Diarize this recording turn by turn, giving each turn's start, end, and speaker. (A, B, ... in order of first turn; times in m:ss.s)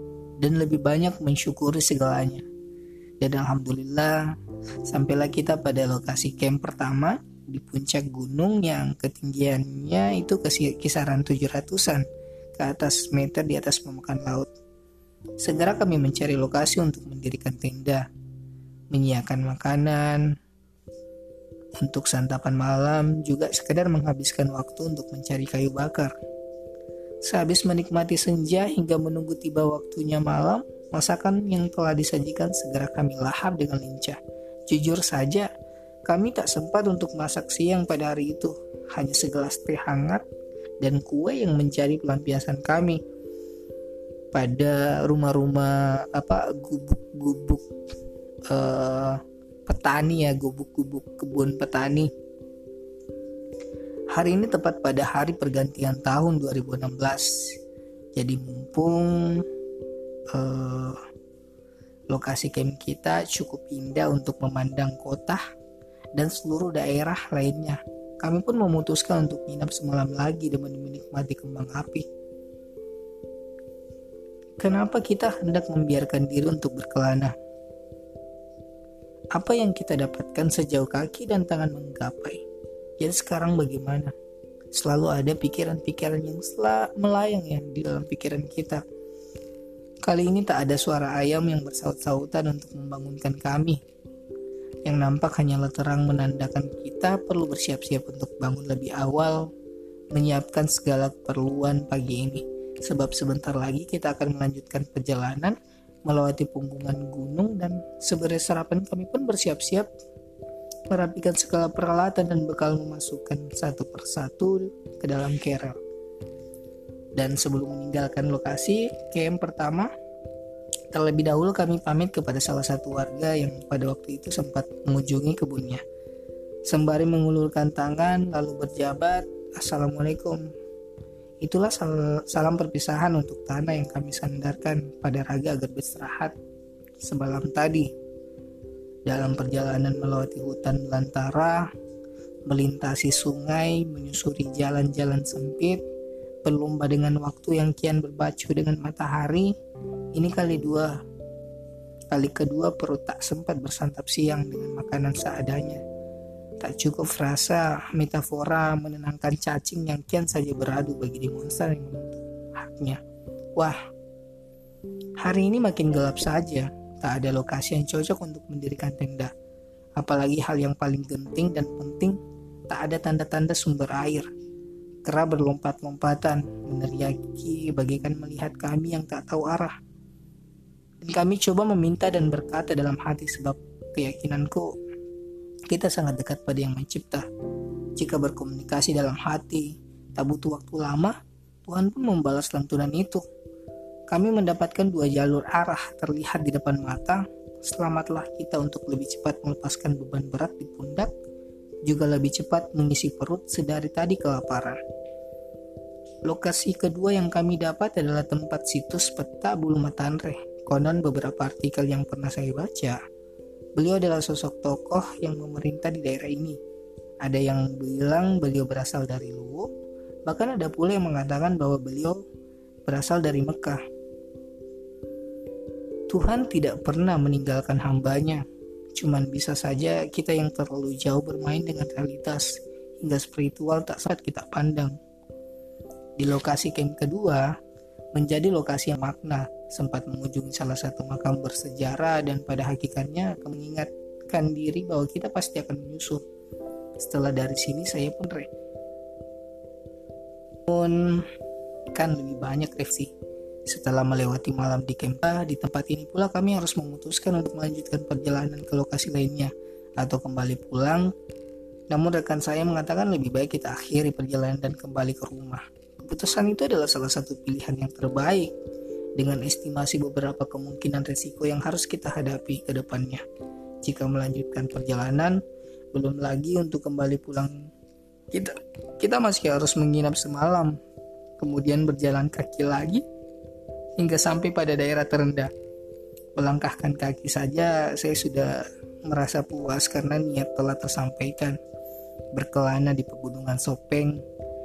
0:00.4-0:02.5 A
0:03.2-0:04.3 A
0:04.9-0:14.5 A
0:15.4-0:18.0 A
0:18.9-0:20.3 A
0:21.8-0:26.1 A
0:27.2-0:35.5 A
0:36.1-0:40.2 A
0:40.8-0:43.0 A
0:44.3-0:47.7 A
0:48.5-0:52.1 A
0:54.1-0:57.6 A
0:58.2-0:59.5 A
1:00.3-1:01.0 A
1:02.1-1:05.4 A
1:06.2-1:12.0 A
1:14.6-1:17.3 A
1:19.4-1:22.4 A
1:23.0-1:24.1 A
1:24.7-1:28.8 A
1:30.0-1:33.8 A
1:34.9-1:39.5 A
1:40.1-1:49.9 A
1:50.9-1:55.8 A
1:57.2-1:59.9 A
2:00.9-2:05.8 A
2:06.7-2:10.5 A
2:11.4-2:16.4 A
2:17.0-2:17.9 A
2:19.1-2:21.7 A
2:22.5-2:25.8 A
2:26.4-2:29.5 A
2:30.2-2:31.0 A
2:32.1-2:35.8 A
2:36.6-2:43.0 A
2:45.2-2:49.3 A
2:50.0-2:52.2 A
2:52.7-2:54.3 A
2:55.0-2:59.7 A
3:01.0-3:04.7 A
3:05.7-3:07.3 A
3:08.0-3:13.2 A
3:14.1-3:21.1 A
3:21.9-3:24.8 A
3:26.3-3:33.0 A
3:33.8-3:36.6 A
3:37.2-3:39.7 A
3:40.3-3:42.2 A
3:42.9-3:43.8 A
3:46.1-3:48.4 A
3:49.0-3:55.0 A
3:56.2-3:57.5 A
3:58.1-4:06.2 A
4:07.0-4:08.5 A
4:10.7-4:11.3 A
4:11.9-4:13.1 A
4:13.7-4:21.1 A
4:21.9-4:28.5 A
4:29.2-4:33.2 A
4:33.8-4:35.4 A
4:35.9-4:37.7 A
4:38.3-4:40.8 A
4:41.4-4:43.0 A
4:44.0-4:45.5 A
4:46.4-4:51.6 A
4:52.3-4:54.2 A